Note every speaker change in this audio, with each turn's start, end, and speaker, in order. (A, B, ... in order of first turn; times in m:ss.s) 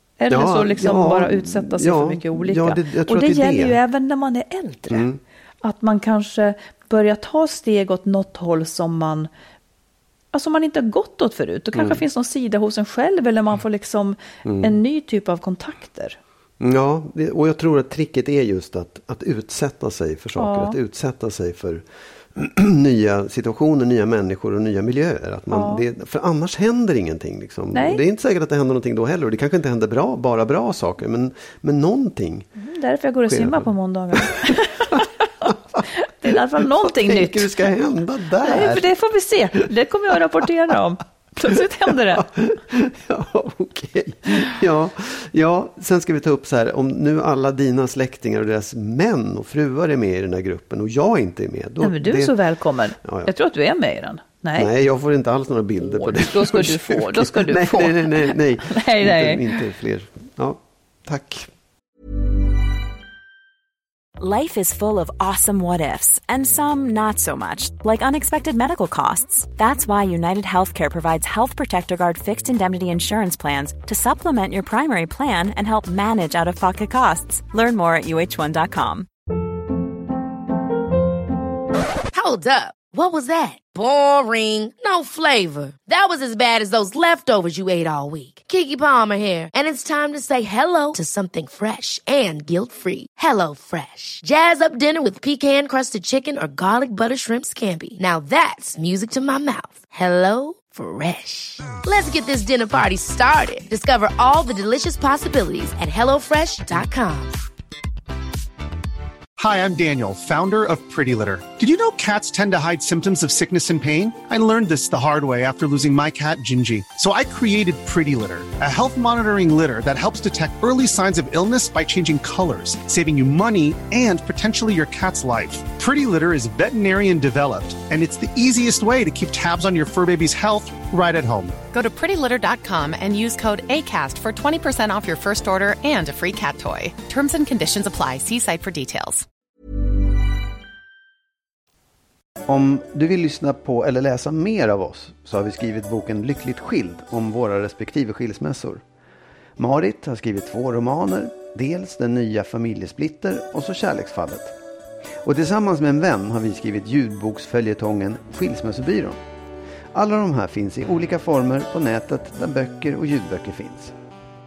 0:00.2-0:05.1 A
0:00.3-0:03.8 B
0:04.9-0:05.2 B
0:05.6-0:09.3 A
0:10.3-0:16.2 A
0:11.7-0:12.0 B
0:14.4-0:14.8 B
0:16.6-0:32.5 B
0:20.4-0:20.8 A
0:25.5-0:25.8 A
0:27.7-0:28.0 A
0:32.6-0:37.5 A
0:33.3-0:35.8 B
0:36.6-0:38.9 B
0:38.4-0:42.3 A
0:41.9-0:52.4 B
0:51.8-0:54.7 A
0:53.0-0:53.3 B
0:54.5-1:01.5 B
0:55.8-0:59.4 A
1:04.2-1:19.1 C
1:22.1-1:47.4 D
1:49.4-2:11.6 E
2:11.7-2:19.2 F
2:22.4-2:28.8 B
2:29.6-2:34.6 B
2:35.2-2:39.2 B
2:39.9-2:43.9 B